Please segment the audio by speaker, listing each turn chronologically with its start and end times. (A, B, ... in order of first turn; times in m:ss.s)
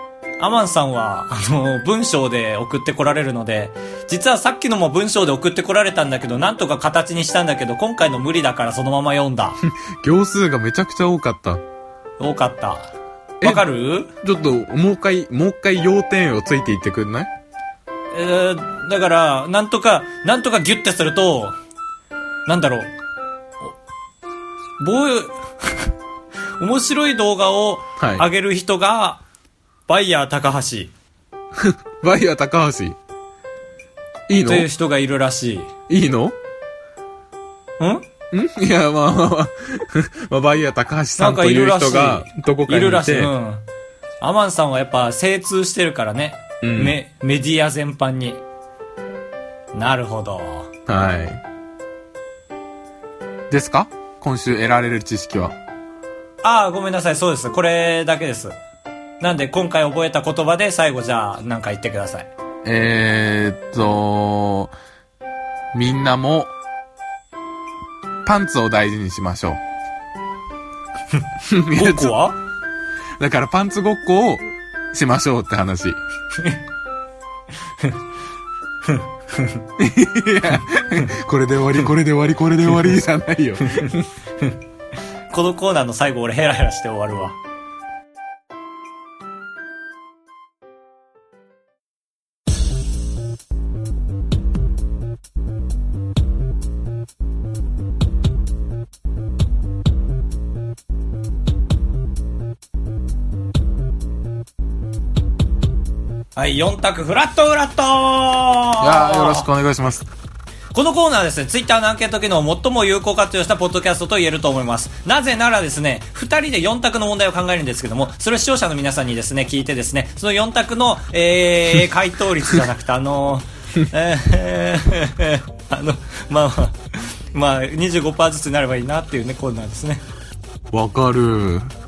0:00.4-0:09.6 A
0:09.7-0:11.6 B
0:12.2-0:14.1 A
0:13.4-0:13.6 B
0:14.2-0:17.3 B
0:18.1-0:21.6 A
0:22.5-0:22.9 A
0:24.8-0:25.9 A
0:26.6-0:29.2 A
0:28.0-0:28.2 B
0:29.9-0:30.9 A
0:31.6-0:33.0 B
0:34.3-0:34.7 B
0:34.4-0:35.7 A
0:35.9-0:36.4 B
0:37.8-0:38.0 A
0:38.3-0:43.3 B
0:41.2-0:43.6 A
0:44.2-0:48.4 A
0:46.6-0:47.0 B
0:49.7-0:50.7 A
0:50.9-0:51.4 B
0:53.5-0:55.6 B
0:56.4-0:58.6 A
0:59.2-1:02.3 A
1:02.6-1:04.7 B
1:05.7-1:06.5 B
1:08.2-1:09.6 B
1:11.4-1:12.2 B
1:11.7-1:12.4 A
1:13.2-1:16.0 B
1:18.8-1:19.6 A
1:19.8-1:24.1 B
1:25.3-1:27.4 A
1:46.4-1:49.5 A
1:48.8-1:50.1 B
1:50.7-2:10.0 A
2:10.7-2:11.7 B